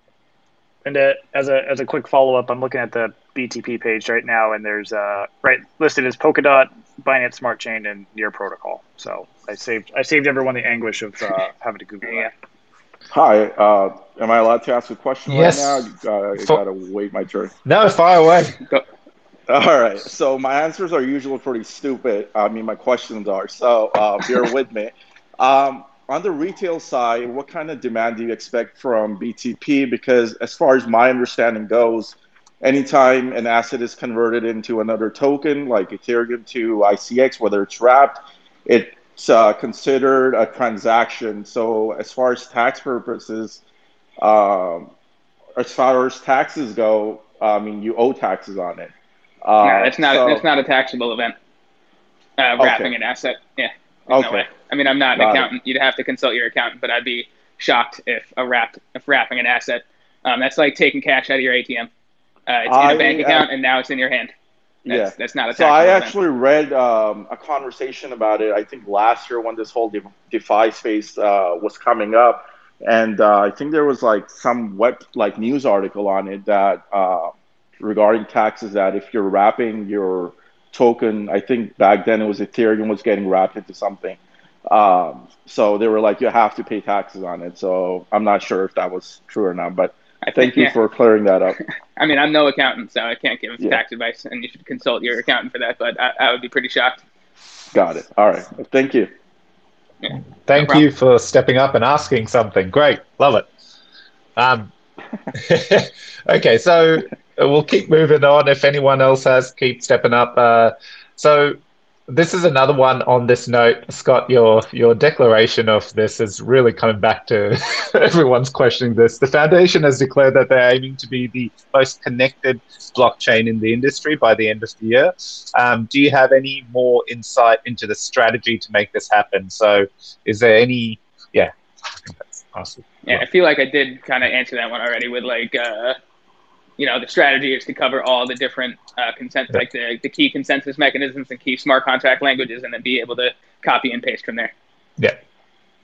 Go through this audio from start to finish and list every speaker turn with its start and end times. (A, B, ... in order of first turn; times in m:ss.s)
0:00.8-0:12.3 A
0:12.0-0:12.3 B
0:13.1-0:17.5 C
0:15.3-0:16.6 D
0:17.6-0:18.6 D
0:19.5-0:43.6 C
0:44.2-0:44.9 C
0:45.6-0:48.9 C
0:49.4-0:50.4 C
0:49.6-0:51.3 B
0:52.4-1:01.9 B
0:52.6-0:52.9 C
0:54.1-0:54.5 C
0:55.2-0:55.5 C
1:02.5-1:04.3 B
1:02.7-1:03.5 C
1:04.8-1:31.6 C
1:04.9-1:06.1 B
1:30.2-1:30.7 B
1:32.0-1:37.0 B
1:37.7-1:39.1 C
1:40.0-1:40.8 B
1:40.4-1:43.5 D
1:44.4-1:44.7 D
1:45.3-1:51.6 D
1:52.1-2:11.5 D
2:12.0-2:13.2 D
2:13.0-2:16.0 B
2:16.8-2:24.5 B